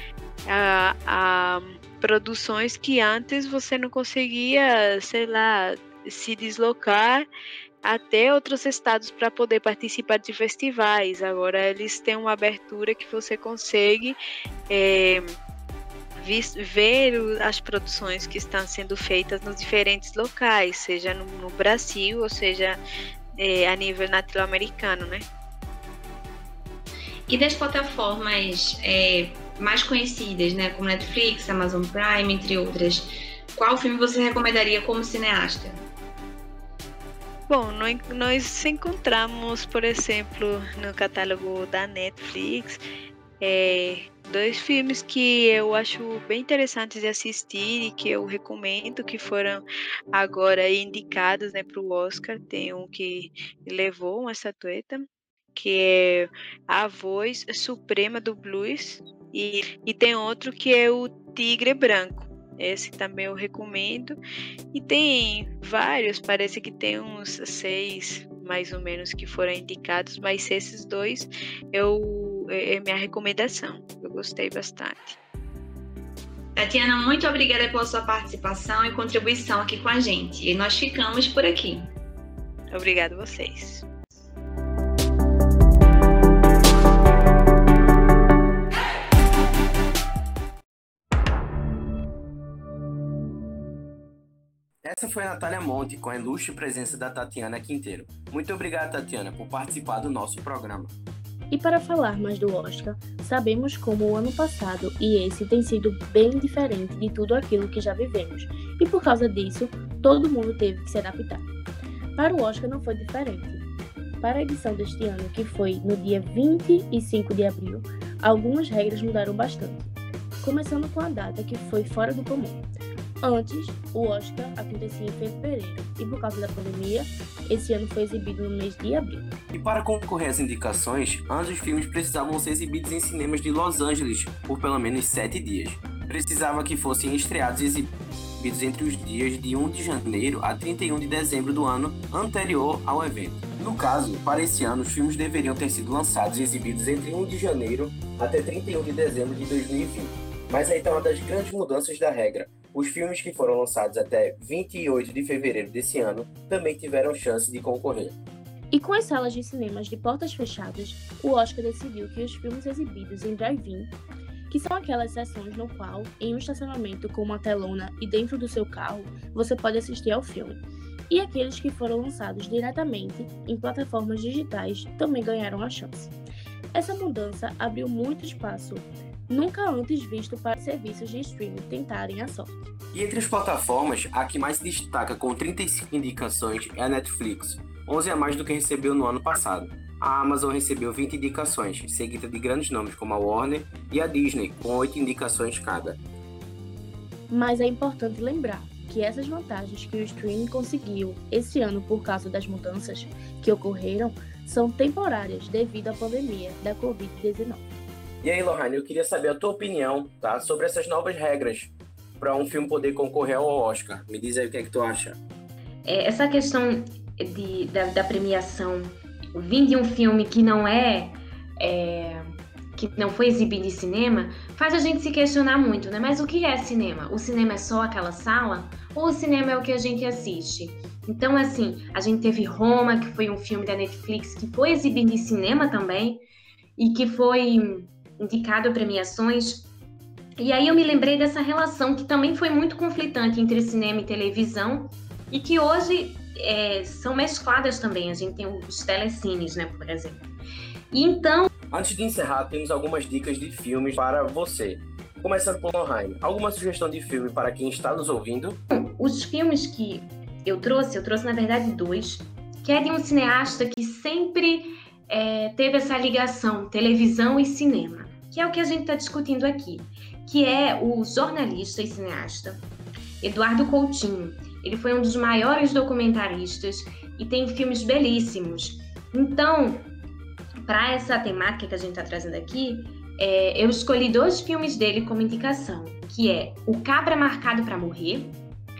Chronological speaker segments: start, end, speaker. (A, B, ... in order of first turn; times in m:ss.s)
0:00.5-0:07.2 A
0:07.8-0:14.2 A
0:14.7-0:15.4 A
0:16.2-0:22.8 A
0:23.4-0:25.2 A
0:27.3-0:35.9 B
0:37.5-0:42.8 A
0:43.4-1:04.2 A
1:04.7-1:15.2 A
1:16.6-1:21.9 B
1:22.7-1:23.8 A
1:34.8-1:40.9 C
1:41.5-1:51.4 D
1:52.2-1:53.6 D
1:54.2-2:02.6 D
2:03.2-2:09.2 D
2:09.5-2:38.2 C
2:38.7-2:43.9 D
2:44.5-2:56.1 D
2:56.7-3:02.7 D
3:02.9-3:16.0 C
3:17.3-3:27.8 D
3:28.2-3:35.2 C
3:35.8-3:56.2 E
3:56.8-3:59.7 E
4:00.4-4:10.3 E
4:10.9-4:11.5 E
4:11.7-4:18.6 C
4:18.7-4:32.6 E
4:33.2-4:39.9 E
4:40.6-4:48.4 E